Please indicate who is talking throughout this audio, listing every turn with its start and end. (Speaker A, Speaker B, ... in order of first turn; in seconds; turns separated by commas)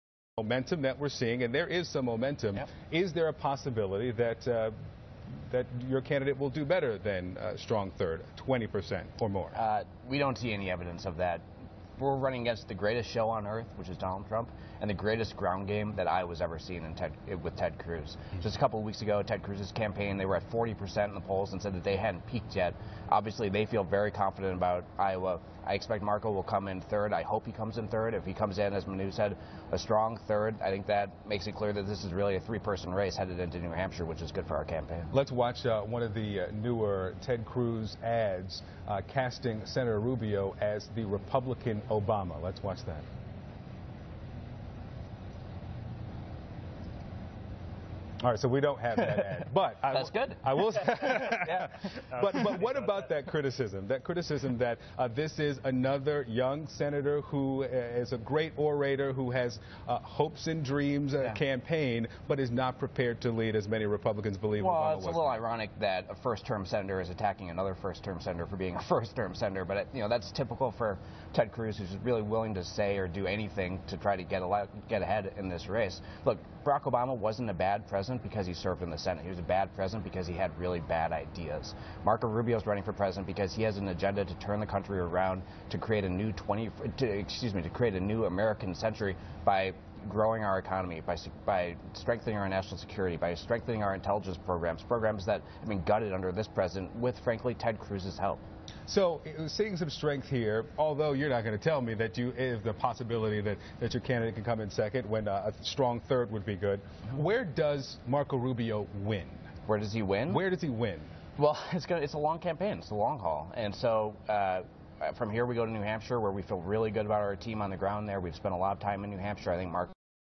Speaker A: 0.4-4.8, Speaker A: 5.5-9.6, Speaker B: 9.6-11.4, Speaker B: 12.0-35.1, Speaker A: 35.1-43.0, Speaker A: 48.2-65.4, Speaker B: 49.0-52.5, Speaker B: 64.6-98.4, Speaker A: 98.9-109.5, Speaker B: 109.7-110.4, Speaker A: 110.3-111.1, Speaker B: 111.4-119.9